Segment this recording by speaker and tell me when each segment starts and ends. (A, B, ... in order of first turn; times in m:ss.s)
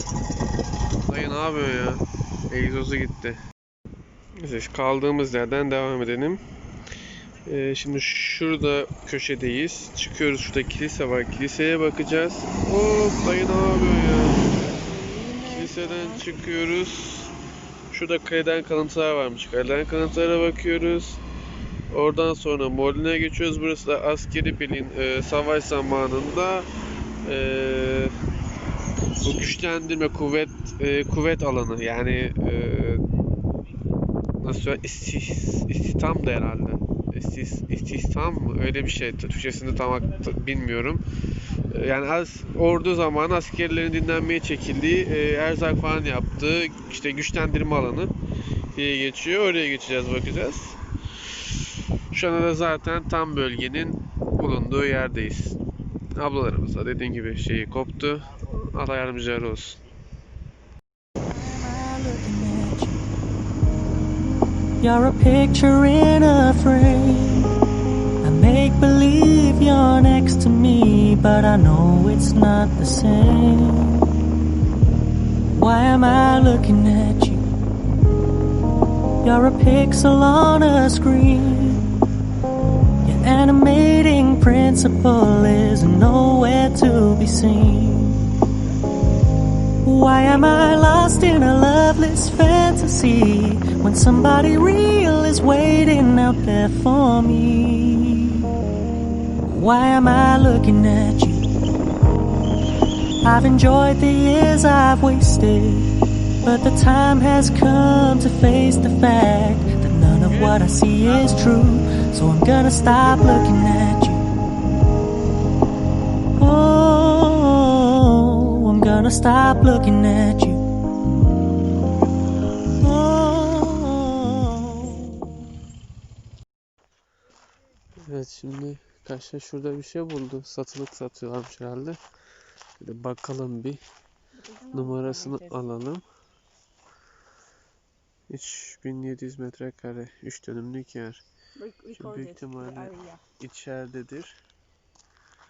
0:01.0-0:03.4 A
0:04.4-0:06.4 A
0:07.4-0:14.5 A
0:14.8-0:16.1 B
0:15.4-0:17.3 A
0:17.9-0:21.2 A
0:21.9-0:26.7 A
0:27.2-0:28.1 A
0:29.2-0:33.0 A
0:34.4-0:41.0 A
0:41.7-0:48.1 A
0:48.7-0:50.8 A
0:52.1-0:55.6 A
0:56.1-0:59.8 A
1:01.3-1:03.0 C
1:04.8-1:07.5 C
1:08.2-1:14.0 C
1:15.5-1:17.5 C
1:19.2-1:21.9 C
1:23.0-1:28.2 C
1:29.8-1:38.5 C
1:39.4-1:41.5 C
1:43.2-1:45.9 C
1:46.4-1:54.2 C
1:50.1-1:51.5 A
1:56.4-2:00.6 C
2:02.8-2:05.3 C
2:08.0-2:12.0 A
2:12.8-2:13.8 A
2:14.3-2:15.6 B
2:14.7-2:16.0 A
2:18.3-2:21.2 A
2:21.6-2:23.2 B
2:21.9-2:24.4 A